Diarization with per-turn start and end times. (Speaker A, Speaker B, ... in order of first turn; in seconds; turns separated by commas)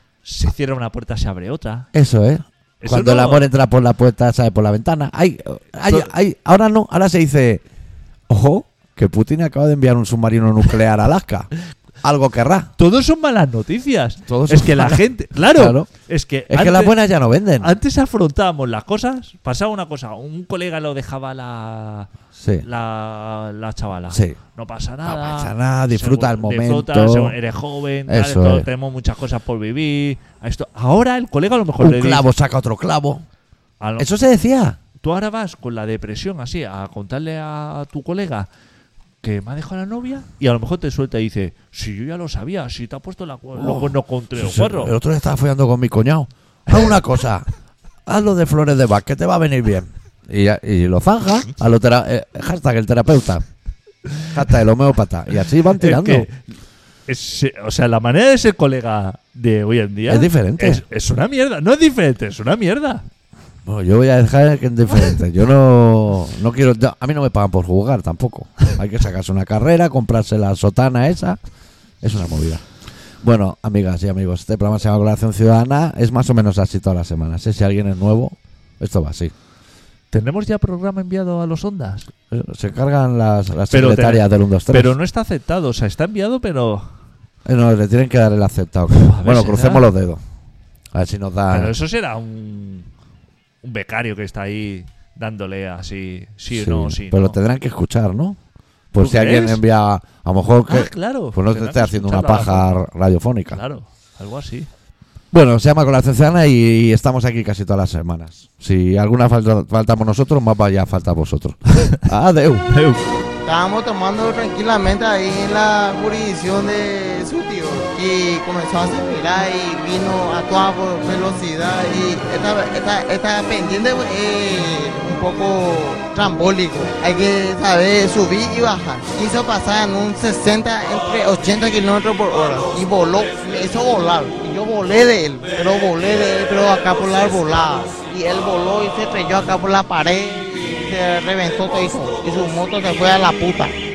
Speaker A: 0.2-1.9, Speaker B: 1.9-7.6, Speaker A: 2.8-3.5, Speaker B: 8.3-11.5, Speaker B: 12.0-12.7, Speaker A: 12.8-16.9, Speaker B: 14.3-15.9, Speaker B: 16.5-17.7, Speaker A: 17.6-22.1, Speaker B: 22.4-22.6, Speaker A: 22.6-32.2, Speaker B: 24.1-24.4, Speaker B: 25.1-27.4, Speaker B: 28.1-28.7, Speaker B: 31.8-33.2, Speaker A: 33.8-34.1, Speaker B: 34.0-34.8, Speaker A: 35.0-38.5, Speaker A: 39.2-45.0, Speaker B: 43.6-47.5, Speaker B: 48.1-53.4, Speaker B: 54.3-56.3, Speaker A: 55.8-56.5, Speaker A: 57.1-63.0, Speaker B: 60.1-60.8, Speaker B: 63.7-71.4, Speaker B: 72.0-72.6, Speaker B: 73.2-79.3, Speaker A: 80.1-82.1, Speaker B: 82.3-85.0, Speaker A: 83.7-86.9, Speaker B: 87.5-90.2, Speaker A: 88.9-89.9, Speaker B: 90.9-91.7, Speaker A: 91.5-92.9, Speaker A: 93.6-97.4, Speaker B: 96.5-98.4, Speaker B: 98.9-103.6, Speaker A: 99.0-99.6, Speaker A: 100.7-102.8, Speaker A: 103.5-104.7, Speaker B: 105.3-112.7, Speaker A: 112.7-113.0, Speaker C: 113.4-143.8